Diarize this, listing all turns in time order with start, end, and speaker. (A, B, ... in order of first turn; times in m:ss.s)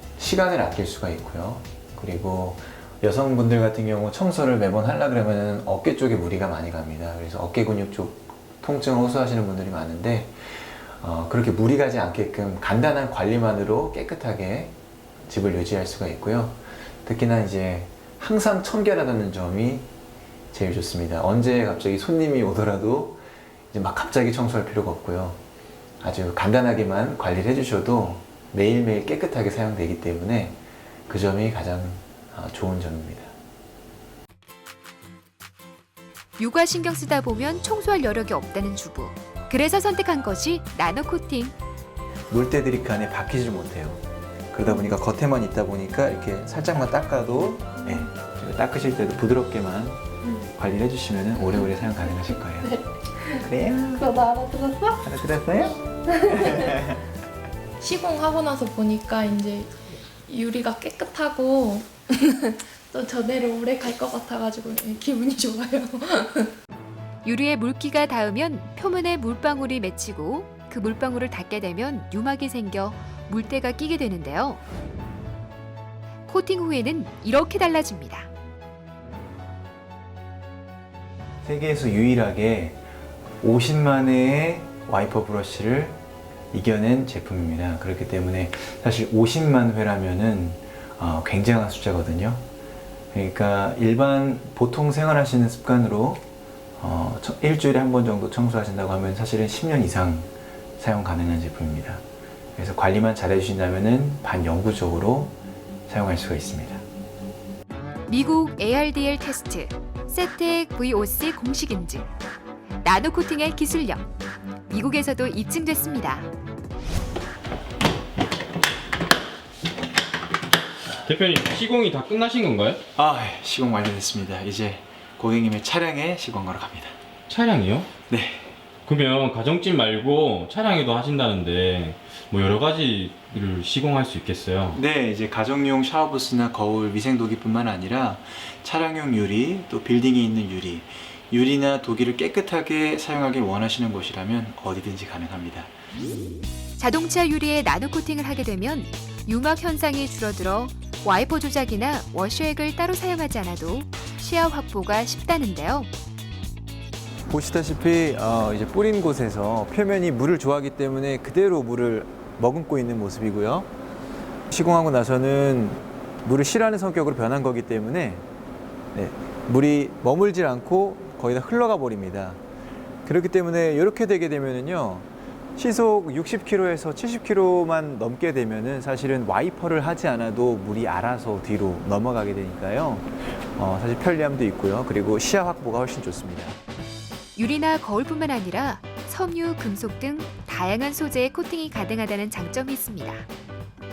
0:00.2-0:19.9 A
0:20.5-0:25.4 A
0:26.0-0:33.3 A
0:36.4-0:41.5 B
0:42.3-0:50.0 A
0:50.5-0:52.7 A
0:52.6-0:55.0 C
0:53.4-0:54.0 A
0:55.0-0:57.0 A
0:55.7-0:56.8 C
0:57.8-0:59.7 C
1:00.3-1:06.5 C
1:07.2-1:14.6 B
1:16.3-1:18.3 B
1:21.4-1:22.8 A
1:23.4-1:26.0 A
1:26.5-1:32.4 A
1:33.1-1:36.2 A
1:36.8-1:42.0 A
1:42.6-1:45.4 A
1:45.9-1:46.8 A
1:48.1-1:52.1 B
1:52.8-1:54.0 B
1:54.7-1:56.3 B
2:01.0-2:02.8 D
2:02.9-2:07.0 A
2:07.3-2:07.9 D
2:08.1-2:08.5 A
2:08.8-2:14.8 D
2:14.7-2:25.7 A
2:26.8-2:35.9 B
2:37.3-2:43.7 A
2:44.5-2:48.2 A
2:48.9-2:52.4 A
2:53.0-3:06.6 A
3:07.4-3:13.2 B